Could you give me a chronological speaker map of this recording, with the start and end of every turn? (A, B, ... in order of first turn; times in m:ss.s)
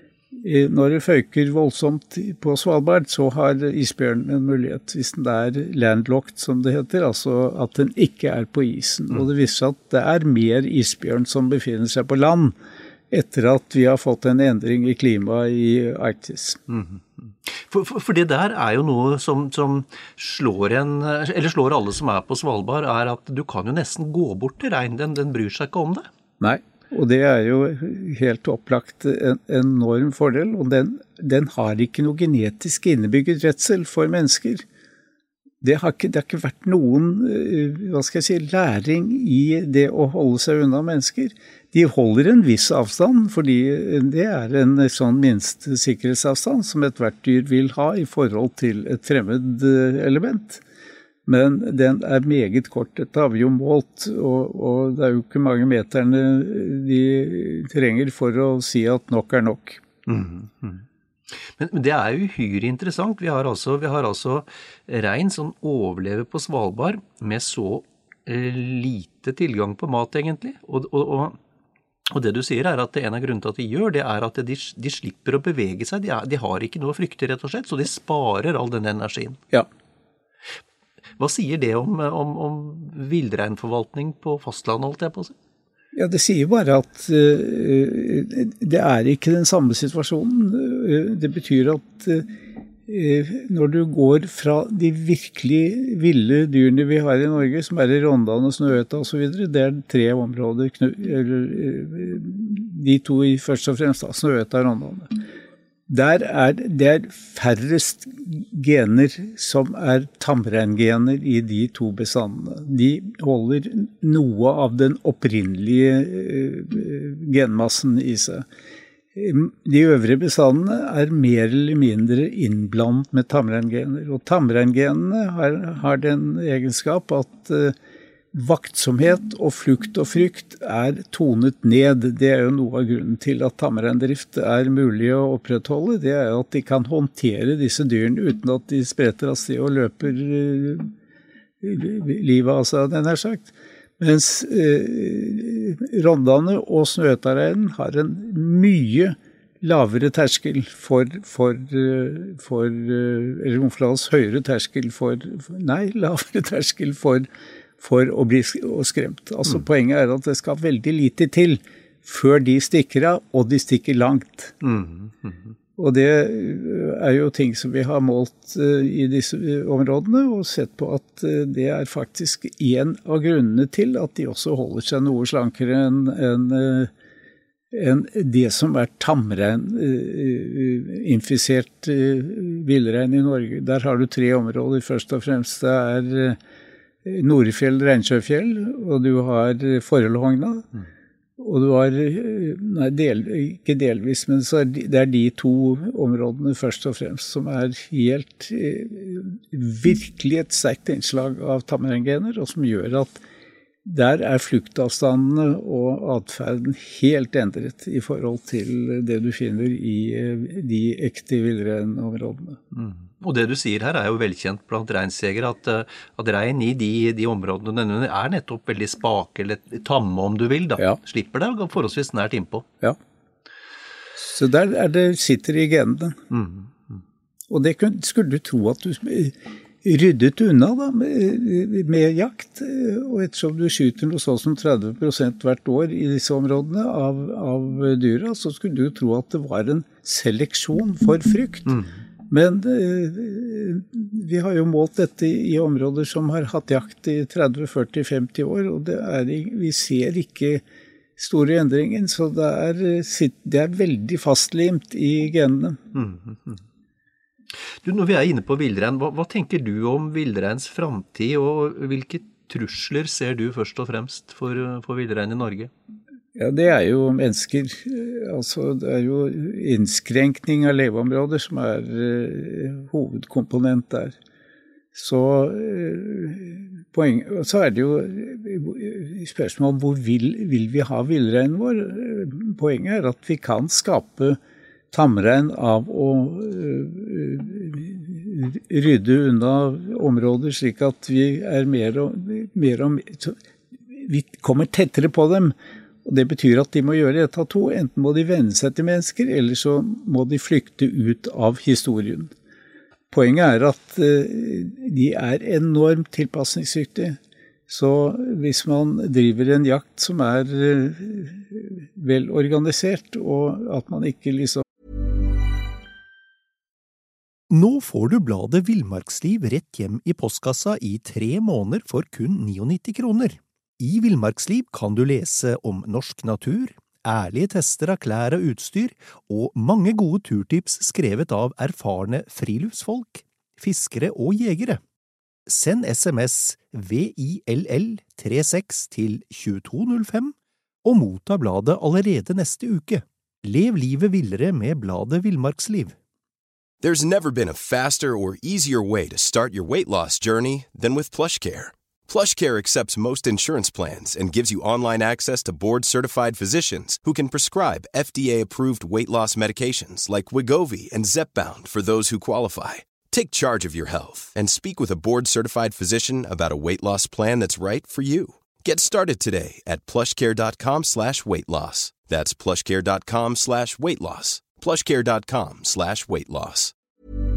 0:00.3-0:12.6 A
0:13.1-0:16.6 A
0:16.7-0:26.1 B
0:26.4-0:34.6 A
0:35.6-0:50.6 A
0:51.2-0:59.8 A
1:00.1-1:00.8 B
1:01.6-1:11.4 B
1:12.1-1:19.4 B
1:21.2-1:25.3 B
1:25.9-1:32.3 A
1:32.8-1:45.2 A
1:45.9-1:58.4 A
1:59.1-2:07.7 A
2:08.3-2:20.9 A
2:21.6-2:37.3 A
2:37.8-2:44.6 A
2:44.6-2:45.4 B
2:45.8-2:56.9 A
2:57.7-3:06.4 A
3:07.0-3:10.7 A
3:11.4-3:23.2 A
3:23.8-3:32.6 A
3:32.7-3:42.7 B
3:44.2-3:46.2 A
3:46.3-3:46.7 B
3:47.5-4:10.6 A
4:11.2-4:15.8 A
4:15.9-4:16.6 B
4:17.8-4:25.7 B
4:26.3-4:34.2 A
4:34.9-4:44.4 A
4:44.9-4:53.4 A
4:53.9-4:55.5 A
4:56.0-5:02.3 A
5:03.1-5:14.6 A
5:17.5-5:34.8 B
5:35.5-5:46.0 B
5:46.8-6:16.7 C